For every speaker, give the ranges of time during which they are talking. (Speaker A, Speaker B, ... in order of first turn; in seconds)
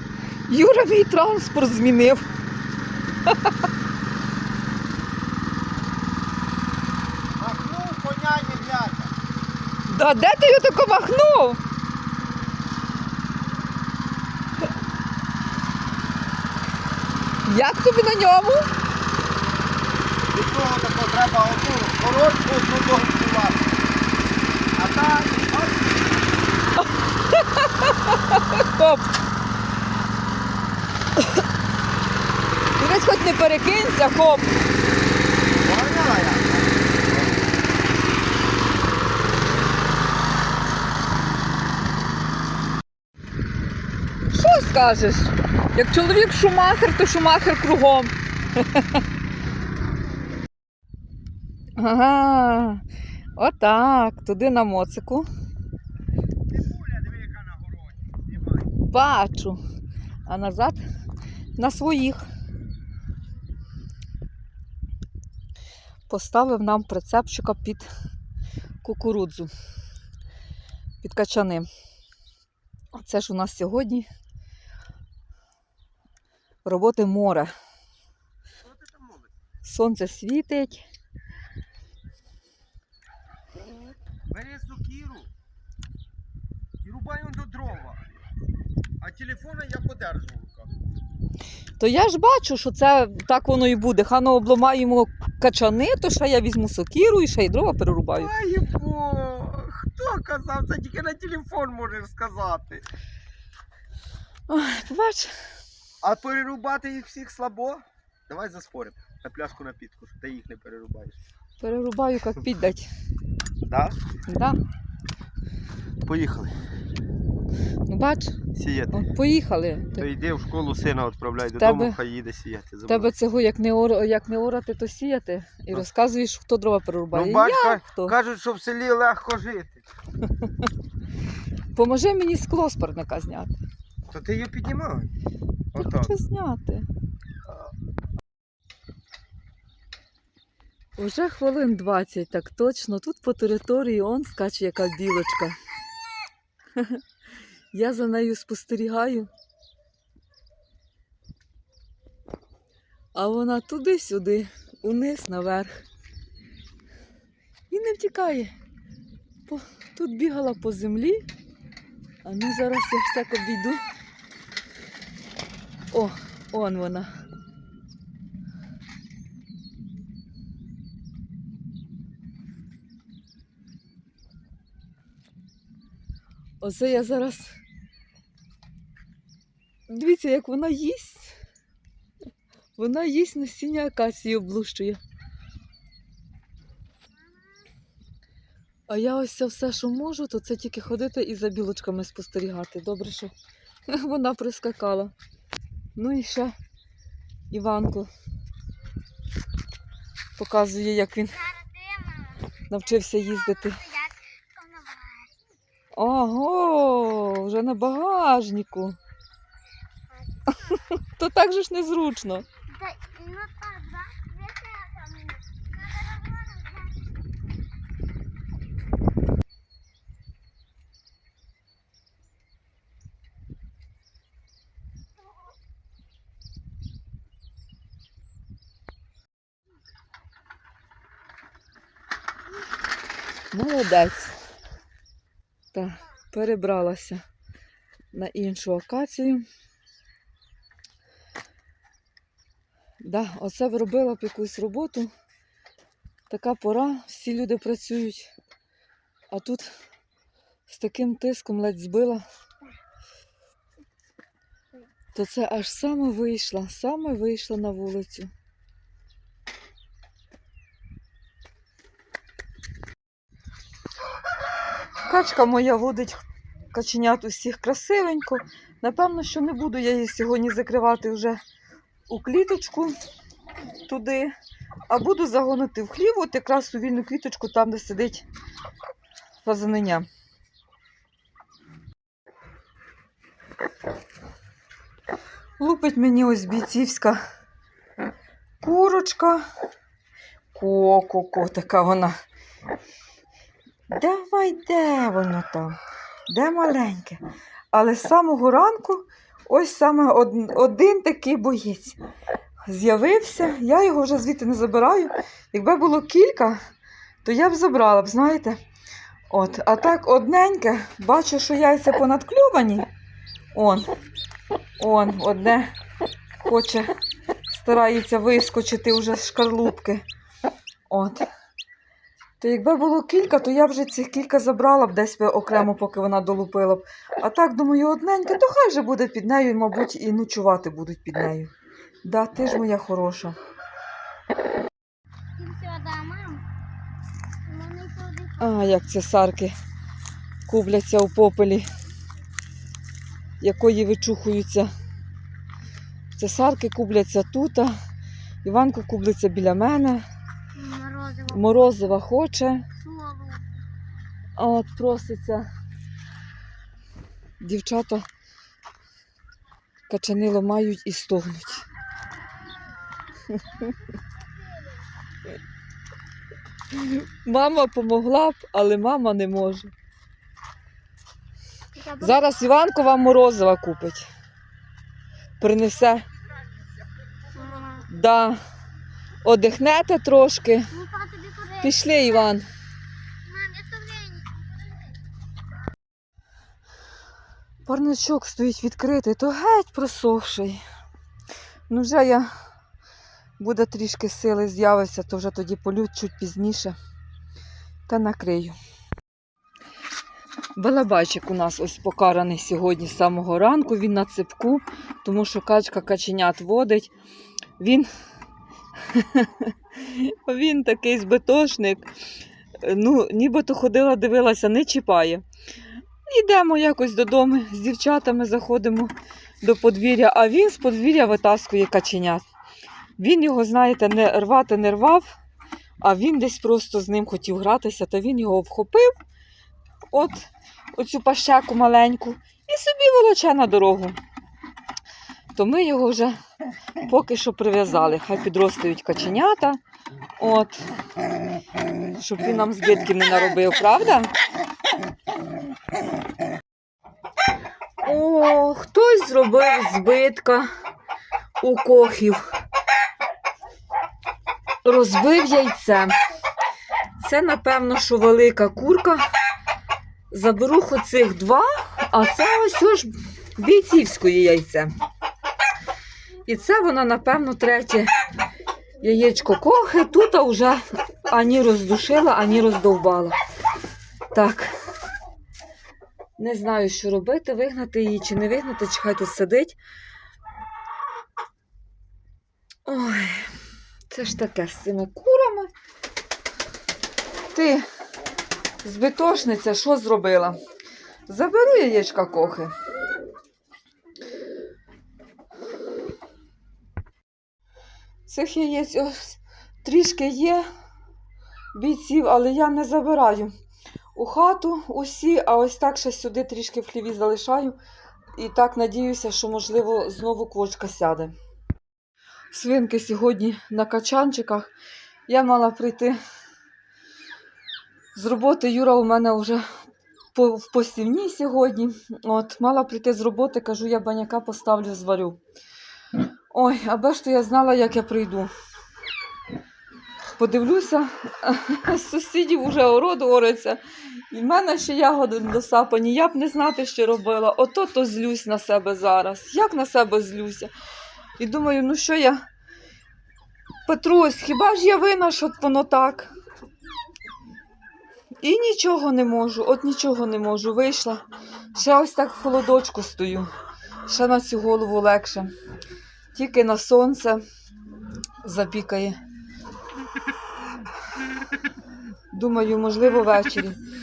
Speaker A: 0.5-2.2, 9.9-11.6, 17.4-18.7, 27.3-29.1, 32.8-34.5, 44.3-49.0, 51.8-52.8, 53.4-55.3, 58.9-59.6, 60.3-60.8, 61.6-62.3, 66.1-67.9, 68.8-69.5, 71.0-71.7, 72.9-74.1, 76.7-77.5, 79.7-80.8, 91.8-98.3, 104.5-105.3, 111.6-112.9, 114.3-114.6, 117.9-118.4, 118.9-120.0, 121.6-122.0, 122.9-128.1, 131.8-133.6, 135.8-136.9, 141.0-145.6, 146.8-147.0, 147.7-149.3, 153.2-155.8, 157.7-158.5, 159.5-161.2, 162.2-163.8, 165.9-167.1, 176.6-177.6, 179.9-181.3, 182.8-185.0, 188.9-193.3, 193.9-195.1, 196.0-196.5, 197.5-198.1, 200.4-201.5, 202.7-203.8, 205.9-209.0, 210.5-212.4, 233.5-234.3, 235.7-237.2, 238.1-239.4, 243.0-245.1, 246.3-248.3, 249.3-249.7, 250.7-252.2, 255.1-258.3, 265.1-271.4, 272.1-273.0, 273.9-274.3, 274.9-278.3, 279.4-280.1, 285.6-287.2, 288.6-289.4, 290.5-292.1, 293.9-295.8, 296.3-297.2, 297.7-302.0, 302.7-306.6, 307.2-308.6, 309.3-312.9, 313.5-313.9, 314.8-315.7, 316.4-316.9, 317.5-320.0, 320.9-321.3, 322.4-331.5, 332.0-333.4, 338.4-339.5, 340.5-341.7, 343.4-344.7, 346.2-347.8, 348.4-350.0, 351.3-352.7, 354.4-355.5, 357.4-358.1, 359.9-361.6, 366.7-369.7, 372.0-374.1, 375.4-376.0, 377.9-378.4, 379.2-380.7, 381.6-382.5, 387.7-390.6, 391.7-392.3, 393.4-396.8, 397.9-398.6, 400.6-406.9, 407.6-407.9, 408.9-411.9, 412.6-415.2, 416.1-422.2, 423.0-425.1, 425.8-428.9, 429.9-434.0, 435.4-436.2, 436.9-439.6, 440.2-440.7, 441.9-444.1, 447.8-450.5, 451.4-452.2, 454.6-455.9, 457.0-459.0, 460.1-464.7, 466.2-467.9, 468.8-473.2, 474.1-474.5, 476.2-479.6, 482.7-483.4, 483.9-485.5, 487.3-487.6, 488.6-490.4, 491.1-492.5, 498.1-500.5, 501.6-503.3, 503.9-507.6, 508.1-511.1, 512.3-514.5, 515.1-516.0, 517.9-519.4, 520.1-525.2, 526.3-528.3, 530.2-533.6, 534.1-540.5, 541.2-542.2, 543.7-546.1, 548.2-553.3, 553.9-555.3, 556.1-557.2, 558.2-559.0, 562.1-563.6
Speaker B: 7.4-9.1, 20.3-23.7, 24.8-26.1, 35.6-37.5, 56.5-58.7, 78.7-79.3, 84.3-85.3, 86.8-88.1, 89.0-90.7, 98.1-102.9, 106.0-111.2, 113.6-114.0, 116.0-116.5, 118.5-119.1, 120.0-123.1, 127.1-129.8, 134.1-135.1, 135.7-136.1
Speaker C: 201.5-202.5, 203.7-205.3, 212.7-217.1, 335.4-336.5, 337.5-338.6, 350.6-351.4, 352.8-353.5, 371.8-372.2, 377.3-377.9, 380.7-382.1, 383.2-384.9